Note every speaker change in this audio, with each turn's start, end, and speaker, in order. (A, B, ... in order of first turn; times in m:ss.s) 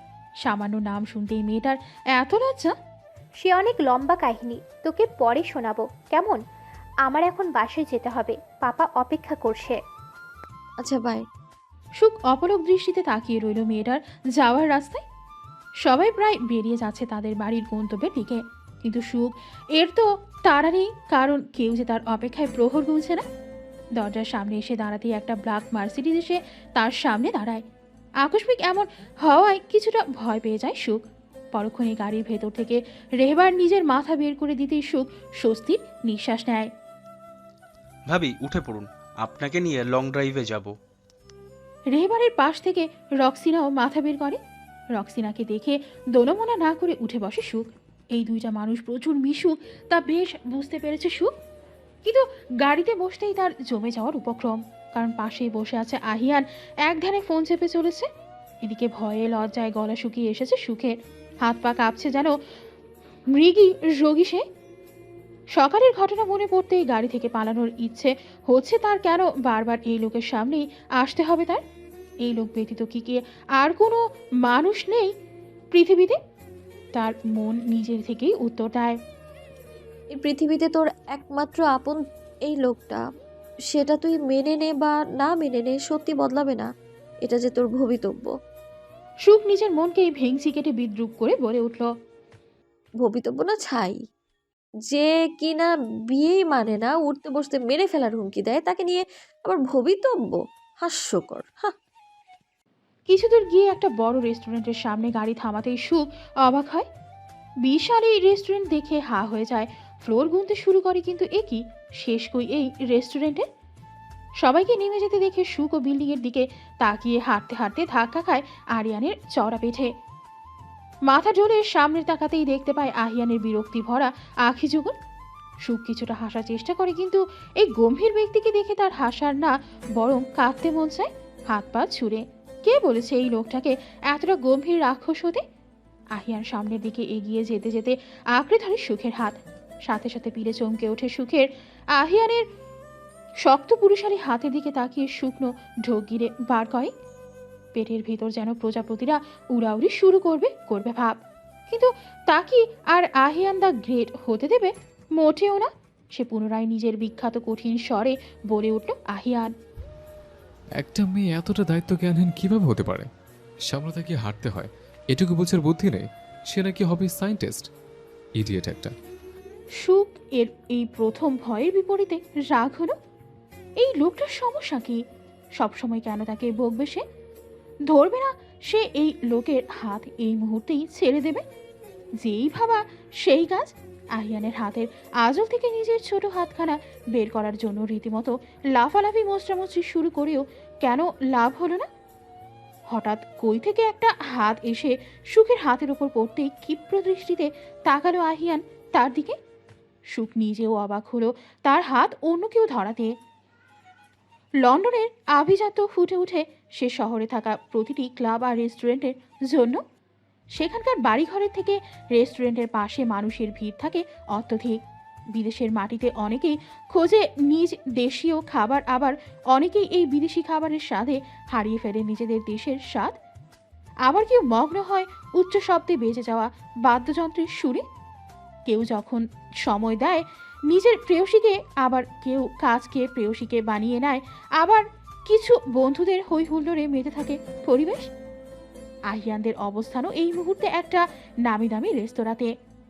0:00.4-0:02.8 A
0:03.4-0:06.4 B
0:07.0-0:09.8 B
0:10.8-0:11.2 C
0:12.0-0:15.0 A
0:15.8-0:23.2 A
0:24.0-0:27.6 A
0:28.2-0:31.0 A
0:31.5-0:36.7 A
0:38.1-0:40.7 D
0:41.9-0:44.4 A
0:45.0-0:51.3 A
0:52.0-0:58.1 A
0:58.6-1:02.4 A
1:03.3-1:04.4 A
1:05.6-1:11.6 A
1:12.2-1:15.1 A
1:15.7-1:16.2 A
1:16.9-1:19.0 A
1:20.2-1:23.0 C
1:23.7-1:26.7 C
1:27.2-1:28.4 C
1:29.2-1:31.9 A
1:33.0-1:34.0 C
1:34.9-1:41.8 C
1:43.1-1:46.9 A
1:47.6-1:53.5 A
1:54.4-1:59.9 A
2:01.1-2:04.9 A
2:05.7-2:15.4 A
2:16.2-2:22.5 A
2:23.4-2:26.9 A
2:27.8-2:39.5 A
2:40.8-2:43.1 E
2:43.7-2:47.7 E
2:48.4-2:49.0 E
2:49.8-2:52.9 A
2:53.8-2:55.0 A
2:55.6-2:57.0 A
2:57.9-3:01.4 A
3:02.2-3:11.9 A
3:12.9-3:19.4 A
3:20.1-3:23.1 A
3:24.6-3:29.8 A
3:30.6-3:34.8 A
3:35.3-3:43.2 A
3:44.1-3:47.8 A
3:48.7-3:58.1 A
3:59.1-4:02.5 A